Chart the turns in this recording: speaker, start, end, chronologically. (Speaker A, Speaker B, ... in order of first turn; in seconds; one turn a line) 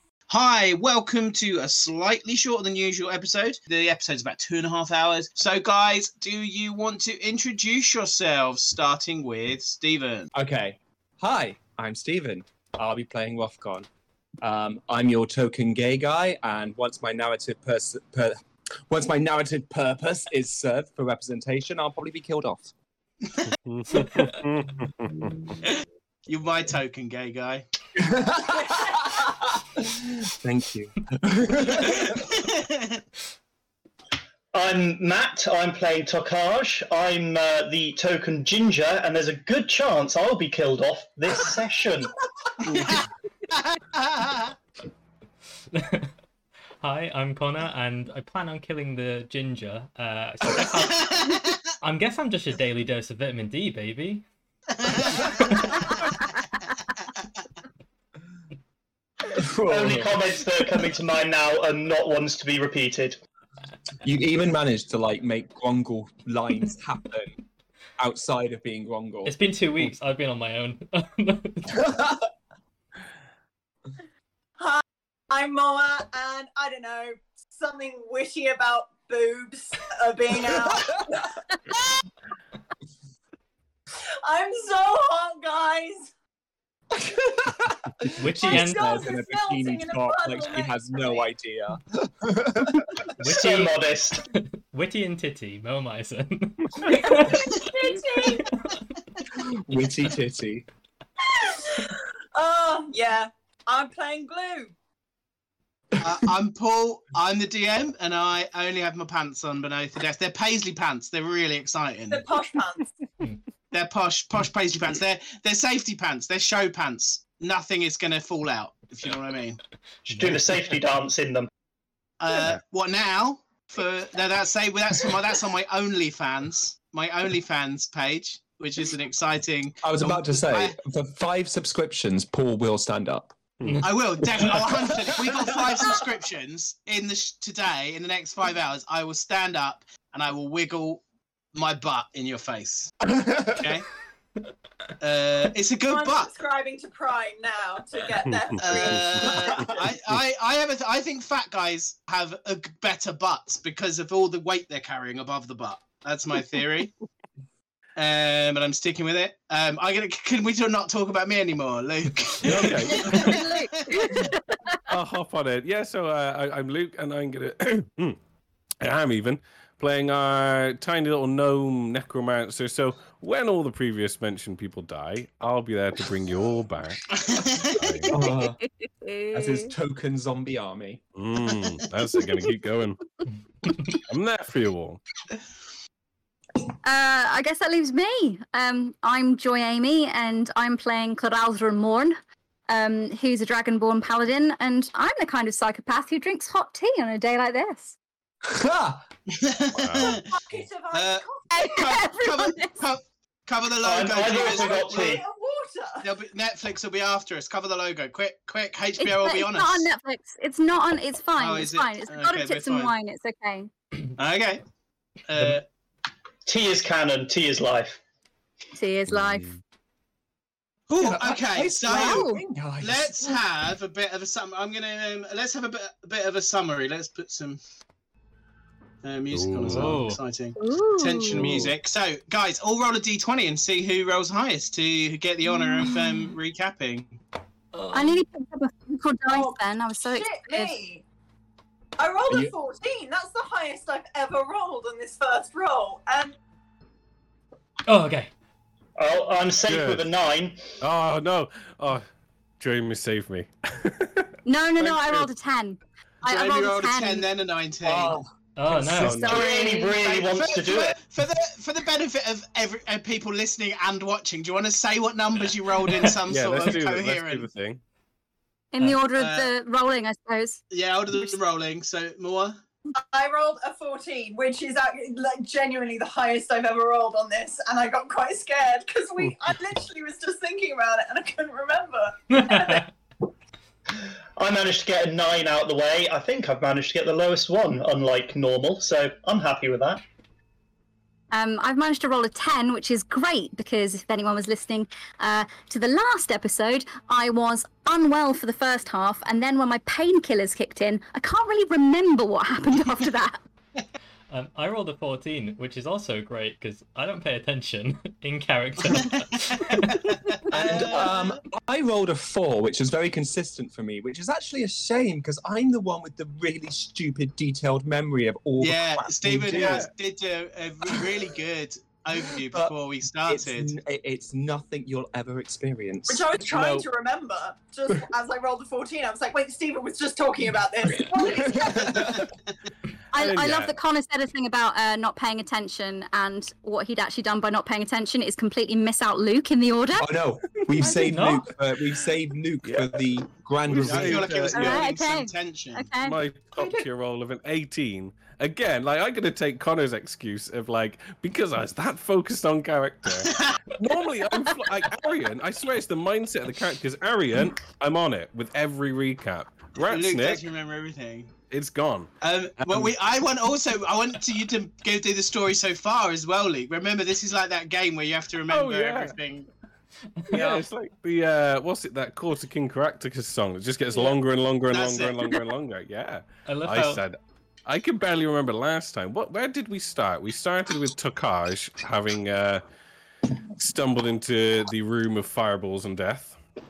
Speaker A: 0.3-10.3
Speaker B: 10.3-13.9
Speaker B: 14.4-18.4
Speaker B: 18.9-22.7
Speaker C: 23.6-25.5
Speaker A: 25.7-27.6
Speaker B: 28.0-32.4
Speaker D: 28.5-29.1
Speaker A: 32.2-33.0
Speaker E: 34.5-42.2
Speaker A: 42.7-44.5
Speaker F: 45.7-46.1
Speaker F: 46.8-54.2
Speaker A: 50.6-51.7
Speaker A: 54.7-56.1
Speaker A: 57.0-57.4
Speaker B: 59.3-60.4
Speaker E: 59.7-63.2
Speaker B: 64.0-67.4
Speaker B: 68.0-69.9
Speaker F: 69.3-71.9
Speaker B: 71.8-72.1
Speaker D: 74.6-81.3
Speaker D: 84.2-86.1
Speaker B: 86.9-93.0
Speaker F: 88.2-89.1
Speaker D: 88.4-91.3
Speaker F: 93.2-97.5
Speaker E: 93.2-94.2
Speaker D: 96.8-98.5
Speaker F: 98.4-98.7
Speaker B: 99.3-100.7
Speaker D: 101.4-104.7
Speaker A: 106.0-112.2
Speaker D: 112.1-112.9
Speaker A: 113.7-119.6
Speaker F: 120.1-120.6
Speaker E: 120.1-121.5
Speaker A: 122.2-130.8
Speaker B: 129.8-133.3
Speaker C: 133.6-133.9
Speaker A: 133.8-142.9
Speaker B: 134.4-135.9
Speaker B: 143.0-143.7
Speaker A: 143.6-143.9
Speaker A: 145.0-146.3
Speaker D: 145.9-149.8
Speaker C: 148.2-149.6
Speaker A: 148.6-156.9
Speaker A: 158.0-164.3
Speaker C: 162.4-163.5
Speaker G: 162.9-164.8
Speaker C: 164.9-168.2
Speaker C: 168.8-177.1
Speaker A: 177.1-178.0
Speaker C: 177.8-178.1
Speaker G: 178.1-179.7
Speaker B: 178.1-178.6
Speaker B: 179.3-181.0
Speaker C: 181.2-183.0
Speaker G: 182.2-182.5
Speaker C: 183.9-185.0
Speaker G: 186.8-192.2
Speaker G: 192.7-198.0
Speaker B: 198.4-199.0
Speaker A: 199.3-200.3
Speaker C: 199.8-200.2
Speaker D: 200.0-202.0
Speaker A: 200.9-205.2
Speaker G: 201.5-202.8
Speaker E: 203.8-205.2
Speaker D: 204.2-206.1
Speaker A: 206.0-209.9
Speaker G: 209.0-213.7
Speaker A: 211.4-212.9
Speaker A: 214.2-214.6
Speaker A: 215.2-215.7
Speaker E: 216.5-218.0
Speaker G: 218.7-219.5
Speaker C: 219.1-219.4
Speaker A: 220.9-222.3
Speaker B: 221.0-223.5
Speaker G: 221.8-222.4
Speaker A: 222.8-227.6
Speaker A: 229.0-237.2
Speaker C: 229.3-230.1
Speaker F: 229.6-230.2
Speaker G: 230.6-231.6
Speaker G: 235.4-236.3
Speaker F: 237.7-238.2
Speaker G: 237.9-240.8
Speaker D: 239.3-241.0
Speaker D: 242.0-246.4
Speaker F: 247.9-248.3
Speaker E: 249.0-250.8
Speaker C: 249.7-250.1
Speaker C: 250.8-252.1
Speaker C: 252.6-254.9
Speaker G: 254.5-257.3
Speaker A: 256.2-258.2
Speaker B: 257.8-258.3
Speaker F: 258.6-259.4
Speaker C: 258.9-259.4
Speaker E: 259.0-261.0
Speaker G: 259.0-260.0
Speaker A: 259.4-267.5
Speaker C: 266.3-267.8
Speaker G: 268.7-270.6
Speaker A: 269.1-269.5
Speaker A: 270.7-272.6
Speaker D: 273.0-282.9
Speaker F: 282.4-282.9
Speaker E: 284.4-290.0
Speaker G: 291.3-303.4
Speaker F: 304.3-310.0
Speaker A: 308.9-311.4
Speaker B: 310.6-319.9
Speaker E: 310.6-311.0
Speaker A: 318.6-323.7
Speaker C: 319.5-319.9
Speaker B: 320.9-321.1
Speaker B: 322.4-322.8
Speaker B: 323.3-326.2
Speaker D: 326.1-331.9
Speaker C: 326.5-326.9
Speaker B: 331.0-332.3
Speaker G: 333.1-340.1
Speaker C: 333.1-333.8
Speaker B: 340.0-344.5
Speaker F: 340.9-341.5
Speaker C: 342.6-343.1
Speaker C: 343.6-344.8
Speaker A: 343.8-345.9
Speaker G: 344.5-346.2
Speaker C: 346.0-360.4
Speaker A: 353.2-353.5
Speaker A: 359.8-361.4
Speaker C: 361.5-362.9
Speaker A: 362.2-369.5
Speaker C: 368.5-369.2
Speaker C: 370.3-382.6
Speaker A: 370.3-370.6
Speaker A: 374.7-375.3
Speaker F: 376.5-377.0
Speaker C: 383.6-386.4